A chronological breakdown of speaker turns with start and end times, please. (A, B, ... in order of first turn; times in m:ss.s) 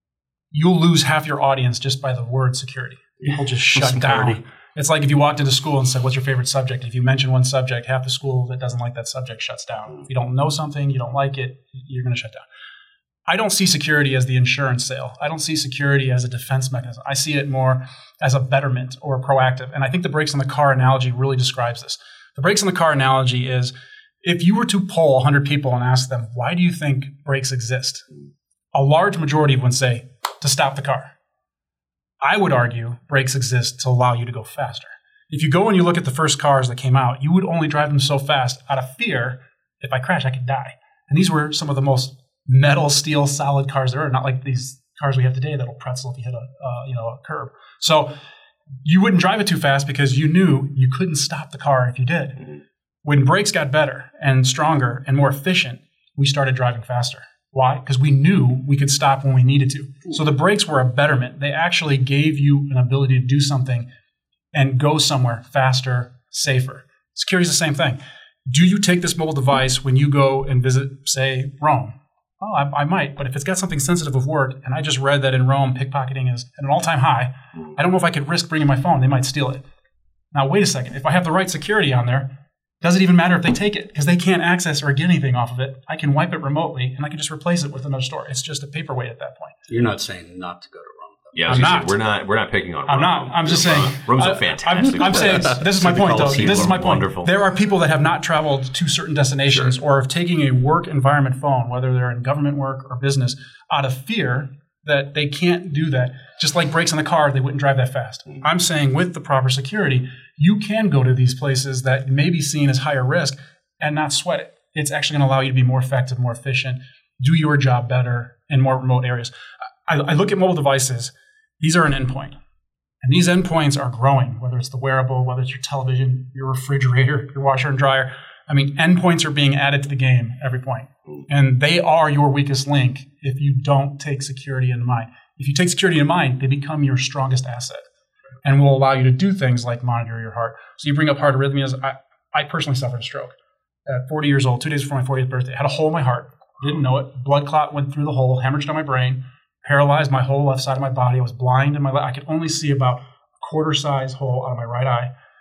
0:00.5-0:12.4 A
0:03.7-0:04.4 B
0:13.3-0:28.0 A
0:28.7-0:31.1 A
0:32.2-0:48.1 A
0:48.8-0:52.5 A
0:53.0-1:03.9 A
1:04.5-1:19.6 A
1:20.3-1:22.3 A
1:22.8-1:29.5 A
1:29.7-1:31.4 B
1:31.3-1:37.3 C
1:31.5-1:31.9 A
1:32.9-1:59.3 A
1:35.2-1:37.0 B
1:59.9-2:02.4 A
2:03.0-2:17.8 A
2:18.4-2:23.3 A
2:23.8-2:35.1 A